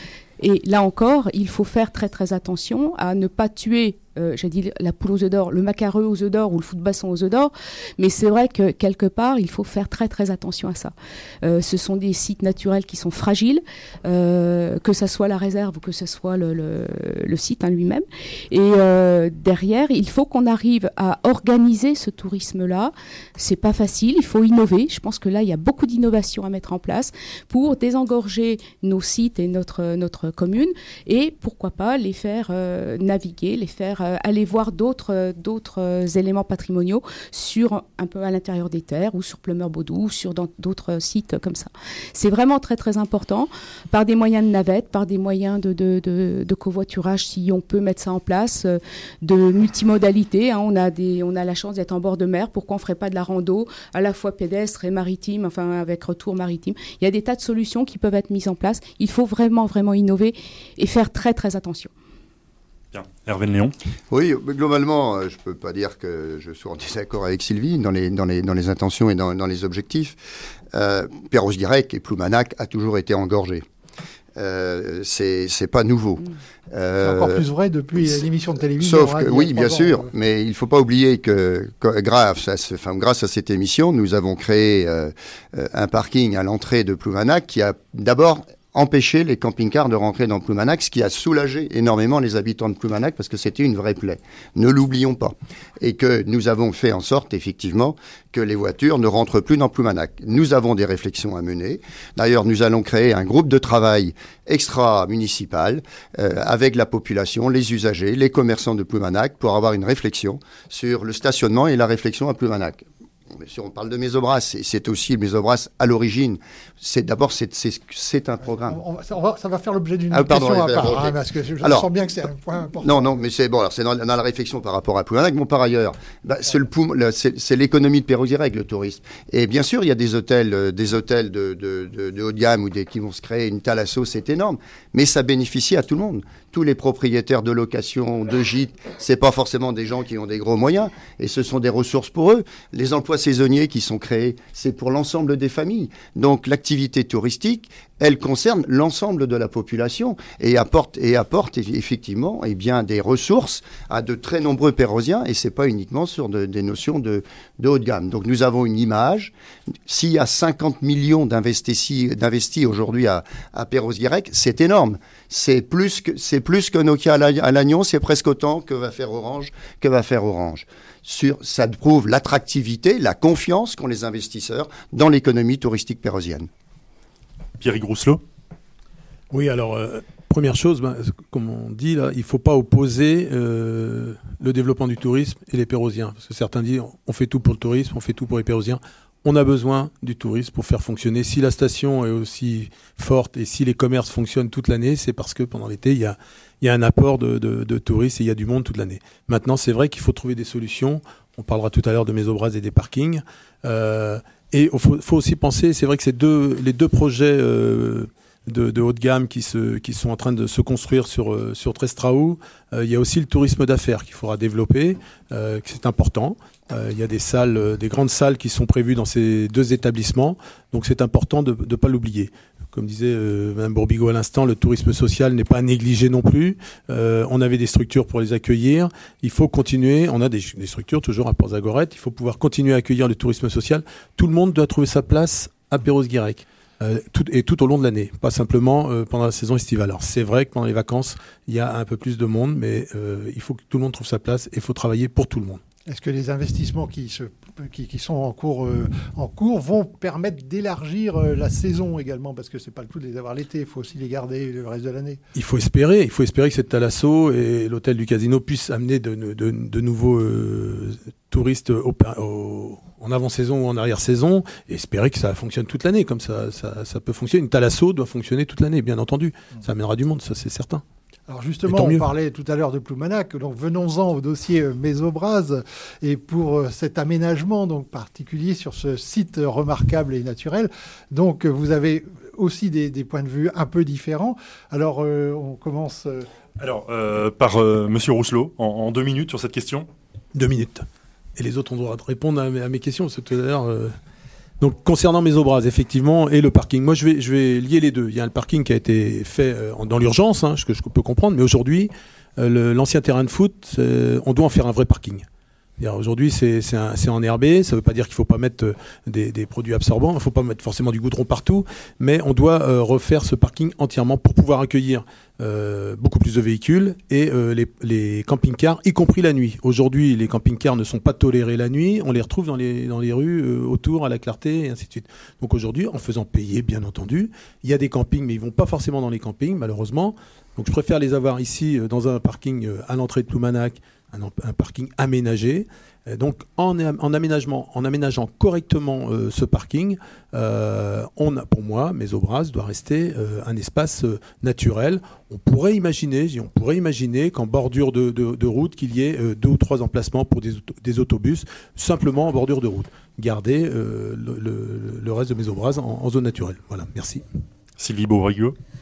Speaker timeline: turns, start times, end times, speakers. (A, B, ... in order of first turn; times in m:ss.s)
0:00.4-1:01.9 A
1:02.9-1:03.7 B
1:04.1-1:10.2 C
1:10.7-1:13.6 C
1:14.4-1:17.4 C
1:17.0-1:20.1 D
1:18.8-1:58.8 C
1:58.6-2:03.1 D
2:00.1-2:01.9 C
2:02.8-2:39.3 C
2:39.9-2:56.5 C
2:57.6-2:58.2 B
2:59.3-4:05.6 E
4:05.9-4:15.2 D
4:15.3-4:30.8 E
4:31.3-4:46.2 D
4:31.6-4:32.1 E
4:46.6-4:49.9 B
4:50.3-4:53.9 E
4:54.6-5:05.2 E
5:05.8-5:57.2 E
5:57.8-5:58.5 B